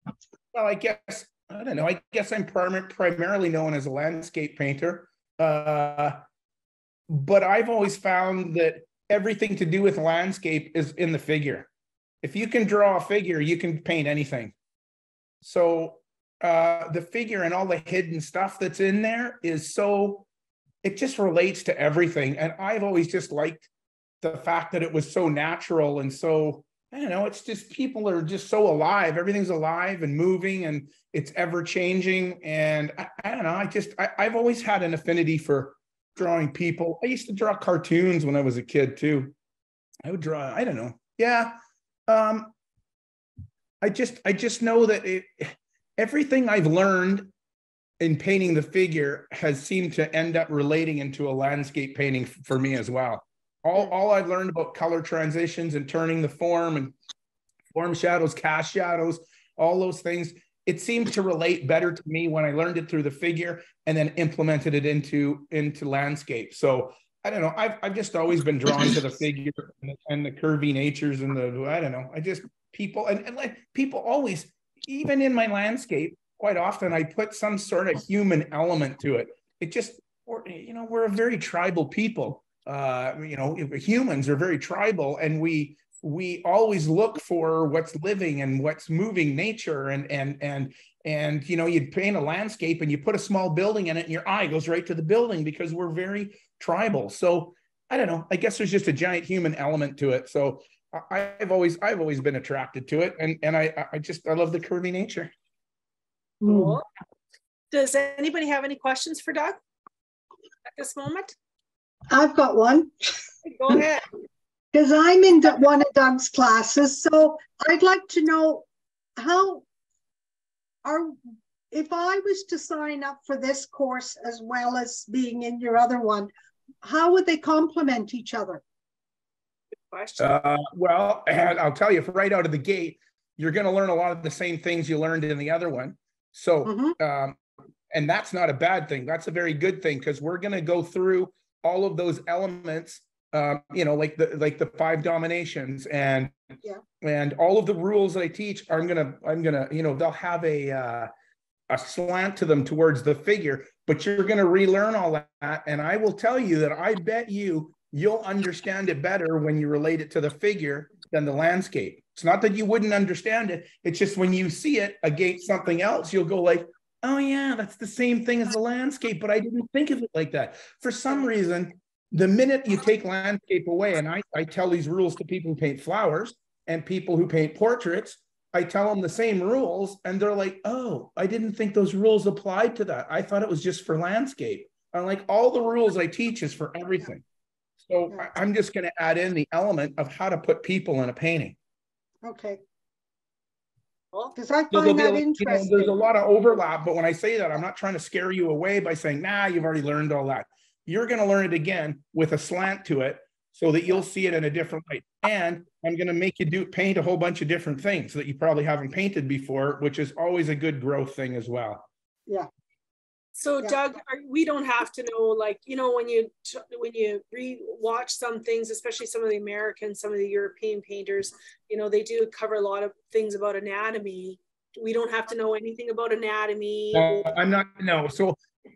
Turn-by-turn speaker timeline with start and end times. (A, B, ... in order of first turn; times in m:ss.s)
0:00.5-0:06.2 A
0:07.1-0:11.7 A
0:12.2-0:14.5 A
0:15.4-0:20.2 A
0:20.8-0:23.7 A
0:24.2-0:39.3 A
0:40.0-0:41.6 A
0:42.1-0:42.5 A
0:43.8-0:47.3 A
0:48.0-0:57.0 A
0:57.7-1:45.3 A
1:46.4-1:46.8 B
1:46.4-1:46.8 C
1:47.7-1:49.6 C
1:50.7-1:51.3 C
1:52.1-1:53.1 B
1:53.4-1:54.1 C
1:54.7-1:58.6 B
1:59.2-1:59.6 B
2:00.8-2:01.2 B
2:01.7-2:06.3 B
2:06.8-2:08.6 B
2:09.9-2:10.4 C
2:10.2-2:17.4 A
2:16.6-2:17.0 B
2:17.9-2:26.3 A
2:27.0-2:31.1 A
2:31.7-3:07.2 A
3:07.8-3:11.5 A
3:12.2-3:12.6 B
3:14.3-3:16.0 B
3:14.7-3:31.9 A
3:33.3-3:47.3 C
3:46.9-3:48.4 A